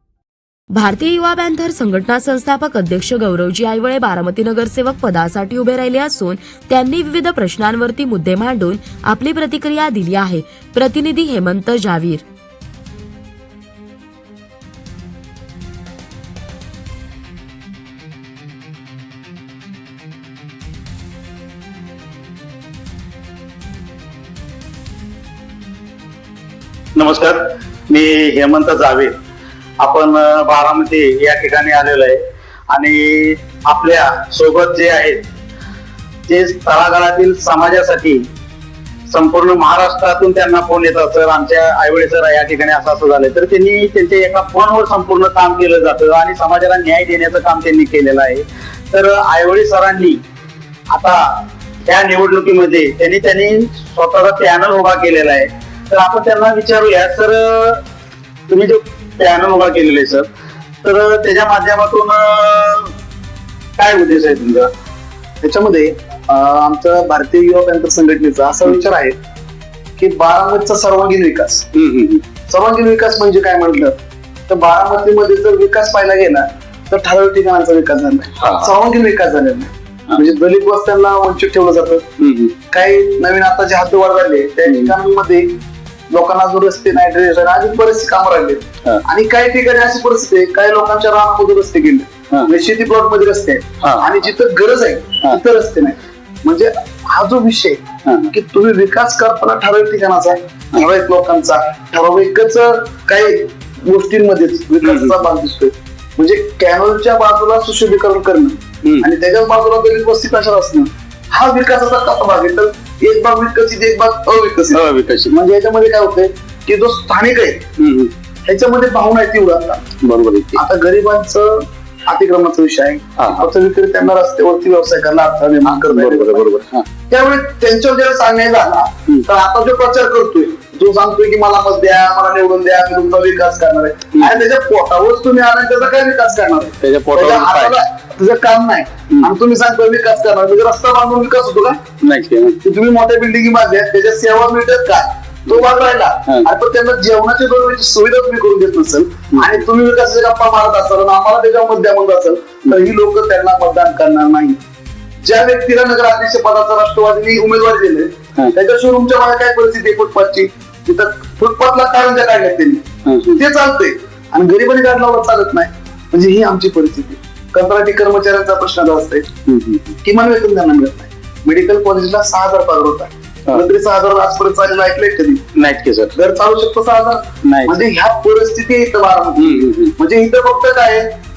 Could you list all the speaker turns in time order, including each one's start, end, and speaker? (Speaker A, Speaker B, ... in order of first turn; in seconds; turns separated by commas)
Speaker A: 0.7-12.2, Speaker B: 26.9-29.2, Speaker B: 29.8-35.2, Speaker B: 36.3-38.3, Speaker B: 39.1-50.2, Speaker B: 50.9-57.8, Speaker B: 58.5-60.3, Speaker B: 60.8-62.9, Speaker B: 63.8-64.7, Speaker C: 65.4-69.2, Speaker C: 70.0-71.7, Speaker B: 71.7-72.2, Speaker C: 72.5-74.0, Speaker C: 74.5-82.0, Speaker B: 78.4-78.7, Speaker B: 82.2-82.5, Speaker C: 82.7-85.5, Speaker B: 84.7-84.9, Speaker C: 86.1-117.7, Speaker B: 93.8-94.2, Speaker B: 98.0-98.3, Speaker B: 104.8-105.1, Speaker B: 114.7-115.3, Speaker B: 117.8-118.1, Speaker C: 118.5-119.8, Speaker B: 120.0-120.6, Speaker C: 120.5-126.5, Speaker B: 123.2-123.5, Speaker B: 125.7-126.8, Speaker C: 127.1-141.8, Speaker B: 134.1-134.4, Speaker B: 136.8-137.8, Speaker B: 142.0-142.6, Speaker C: 142.6-154.6, Speaker B: 149.3-149.6, Speaker C: 155.2-169.3, Speaker B: 163.0-163.4, Speaker B: 169.5-169.9, Speaker C: 170.0-175.4, Speaker B: 175.5-176.2, Speaker C: 176.2-181.1, Speaker B: 177.4-177.8, Speaker B: 179.3-179.9